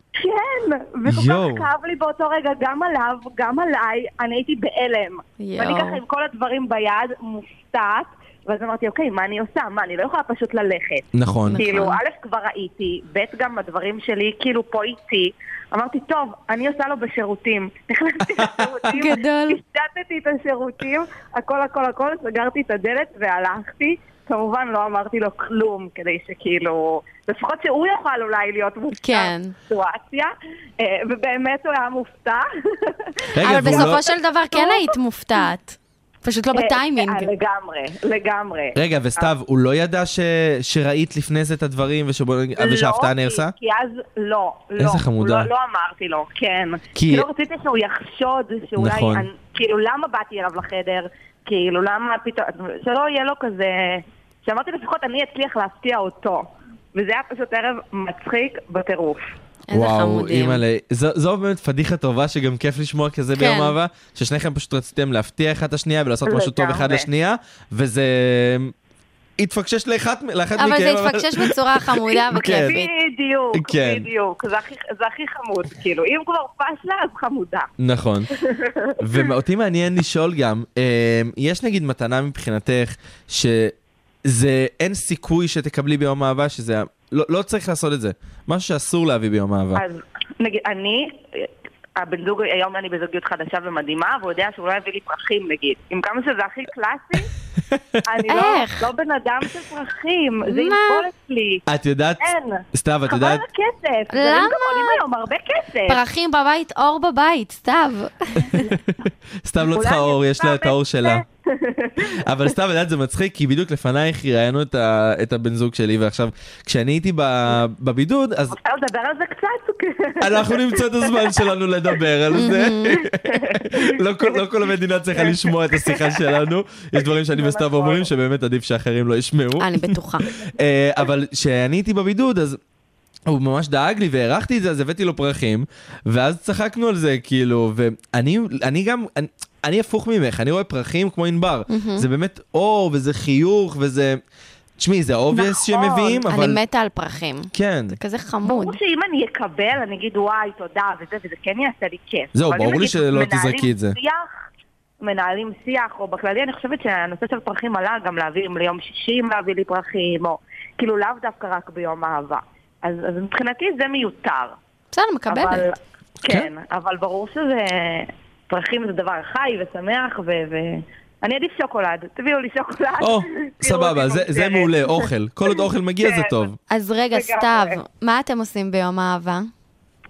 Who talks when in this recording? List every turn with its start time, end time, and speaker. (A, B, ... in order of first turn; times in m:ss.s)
0:00.2-0:34.9 A
0:01.1-0:01.7 B
0:05.4-0:06.0 C
0:11.1-0:11.6 B
0:11.5-0:12.0 C
0:18.4-0:18.7 B
0:18.9-0:19.6 C
0:29.0-0:29.5 C
0:33.3-0:34.0 B
0:33.4-0:37.3 C
0:36.5-0:39.2 A
0:38.8-0:43.5 B
0:42.6-0:59.2 A
0:44.8-0:45.5 B
0:47.0-0:47.2 B
0:48.8-0:49.2 B
0:59.7-1:00.6 C
0:59.7-1:08.7 B
1:03.3-1:03.7 C
1:06.2-1:07.0 A
1:09.4-1:12.7 B
1:10.6-1:12.9 C
1:12.5-1:17.7 A
1:13.5-1:14.1 B
1:17.8-1:18.3 B
1:18.4-1:19.2 A
1:19.0-1:29.8 B
1:29.7-1:37.3 A
1:38.0-1:41.6 A
1:38.3-1:38.9 C
1:40.5-1:41.1 C
1:41.7-1:43.4 B
1:42.2-1:46.0 A
1:44.1-1:45.0 C
1:45.9-1:48.7 C
1:49.4-1:51.2 B
1:49.7-1:52.2 A
1:52.1-1:58.6 B
1:58.5-2:01.4 A
2:00.2-2:12.6 B
2:02.3-2:03.0 C
2:03.2-2:04.4 A
2:05.2-2:06.4 A
2:07.3-2:08.1 A
2:09.6-2:10.3 C
2:13.3-2:24.2 B
2:21.7-2:22.0 C
2:24.8-2:26.6 B
2:25.3-2:26.2 A
2:26.2-2:28.8 C
2:27.5-2:28.0 B
2:28.4-2:34.2 A
2:32.3-2:34.0 B
2:35.0-2:44.6 A
2:44.9-2:45.6 C
2:45.3-2:55.0 A
2:53.0-2:56.6 B
2:55.6-2:56.4 A
2:56.7-2:59.5 C
2:57.1-2:57.8 A